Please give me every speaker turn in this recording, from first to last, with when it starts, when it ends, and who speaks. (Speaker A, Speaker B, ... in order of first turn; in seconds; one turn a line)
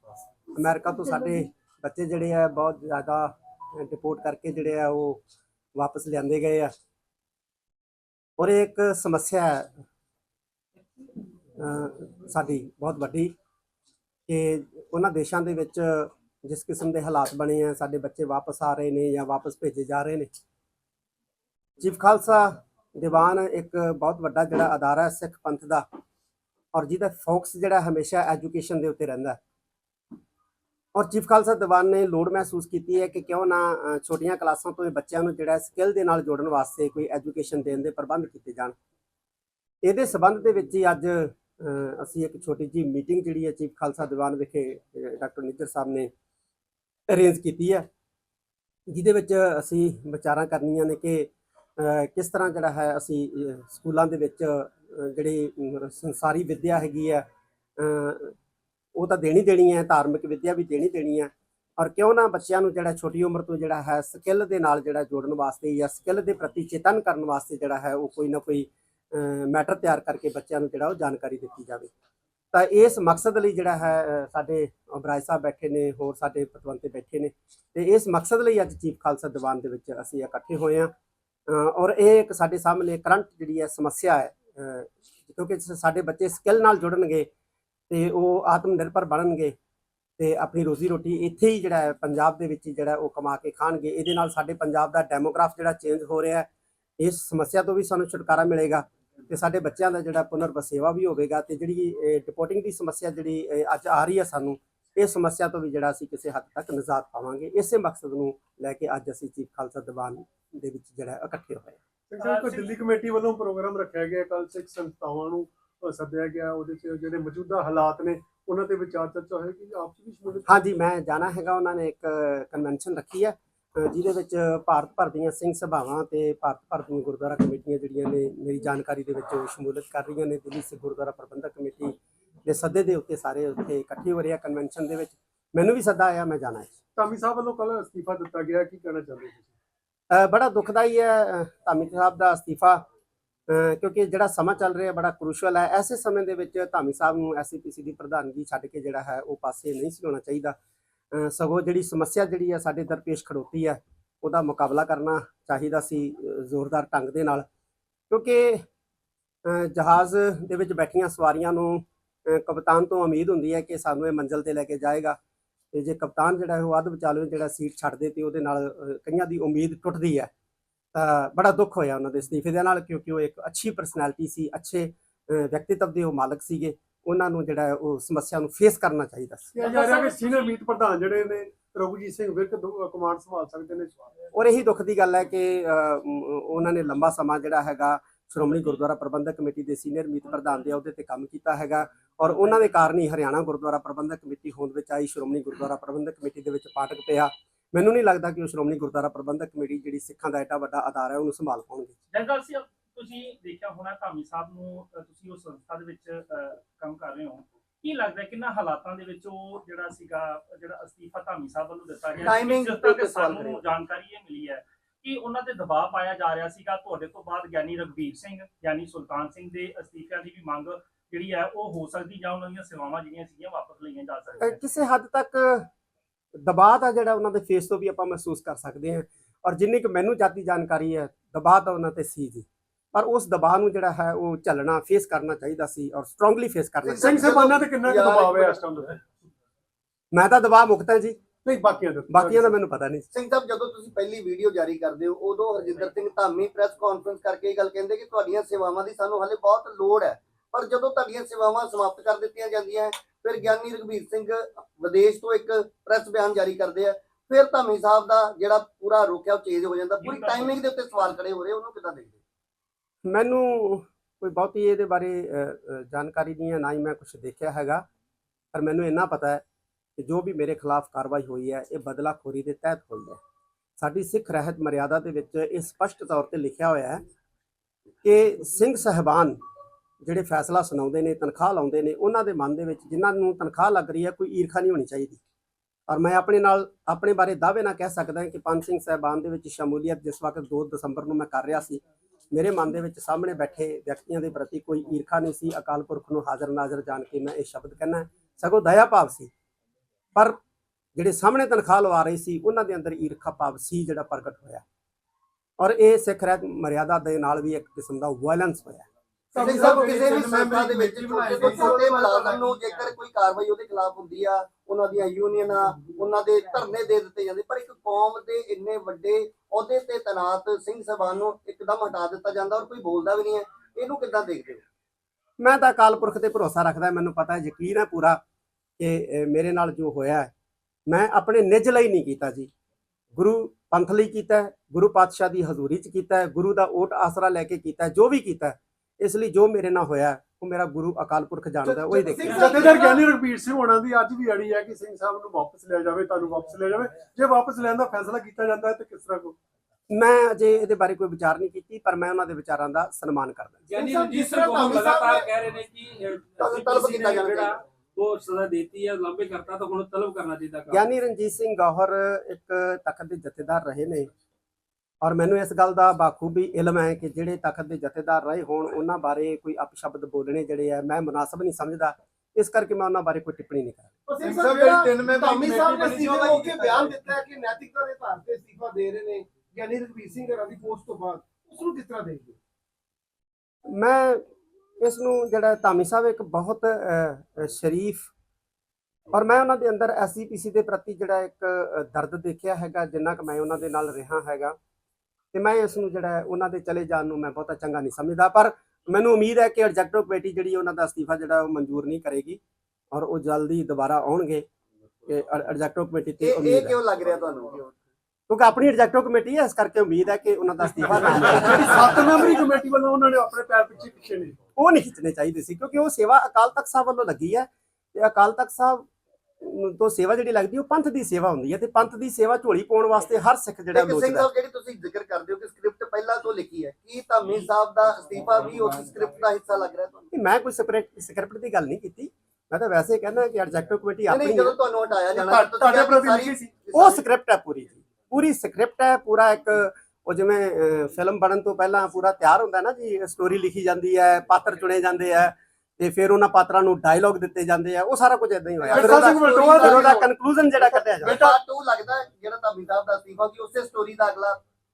Speaker A: 0.5-5.2
Speaker A: 5.7-6.7
Speaker A: 8.4-9.8
Speaker A: 11.6-13.3
Speaker A: 14.3-20.3
Speaker A: 21.8-25.9
Speaker A: 26.7-29.4
Speaker A: 30.9-38.7
Speaker A: 39.8-46.1
Speaker A: 47.1-47.9
Speaker A: 48.9-57.2
Speaker A: 57.8-58.3
Speaker A: 59.0-71.9
Speaker A: 72.5-80.9
Speaker A: 81.5-87.3
Speaker A: 87.9-89.5
Speaker A: 90.2-96.5
Speaker A: 97.0-111.8
Speaker B: 112.1-120.5
Speaker C: 112.2-112.7
Speaker A: 120.5-136.8
Speaker B: 136.9-139.5
Speaker A: 140.1-142.8
Speaker A: 143.5-150.6
Speaker A: 151.1-157.4
Speaker A: 158.1-158.6
Speaker A: 159.4-165.2
Speaker A: 165.7-170.3
Speaker A: 170.9-179.5
Speaker B: 179.5-184.1
Speaker C: 179.6-180.5
Speaker A: 184.3-201.9
Speaker C: 202.1-224.6
Speaker D: 212.2-213.6
Speaker A: 224.4-225.7
Speaker A: 226.3-237.4
Speaker D: 236.8-238.6
Speaker B: 237.0-239.0
Speaker A: 240.1-241.2
Speaker B: 241.4-242.5
Speaker A: 242.1-243.1
Speaker D: 243.1-262.2
Speaker C: 260.0-260.6
Speaker A: 263.1-267.8
Speaker A: 268.5-269.4
Speaker A: 270.0-273.2
Speaker A: 273.8-277.0
Speaker A: 278.0-279.4
Speaker A: 280.0-285.2
Speaker A: 285.9-299.3
Speaker A: 300.9-304.6
Speaker A: 305.6-308.9
Speaker E: 309.3-312.7
Speaker B: 309.4-309.6
Speaker D: 309.4-324.6
Speaker A: 309.6-309.9
Speaker B: 311.4-311.7
Speaker A: 325.4-328.2
Speaker A: 328.8-330.3
Speaker A: 330.9-332.5
Speaker A: 333.1-342.9
Speaker E: 341.6-343.0
Speaker B: 342.3-349.4
Speaker A: 349.9-353.6
Speaker F: 353.7-360.9
Speaker E: 353.8-355.3
Speaker D: 356.4-357.6
Speaker A: 360.7-364.1
Speaker A: 365.0-373.9
Speaker E: 374.1-382.4
Speaker B: 375.1-376.5
Speaker A: 383.7-384.2
Speaker A: 384.8-388.1
Speaker A: 389.1-394.6
Speaker A: 395.3-402.4
Speaker A: 402.9-404.5
Speaker A: 405.0-406.8
Speaker D: 406.2-407.7
Speaker A: 408.3-412.3
Speaker B: 411.1-414.4
Speaker A: 414.5-418.9
Speaker A: 419.4-424.3
Speaker D: 423.7-430.1
Speaker A: 430.1-434.6
Speaker D: 434.1-437.0
Speaker B: 435.1-436.5
Speaker A: 436.7-451.3
Speaker B: 448.6-450.1
Speaker D: 449.3-450.0
Speaker D: 450.6-454.4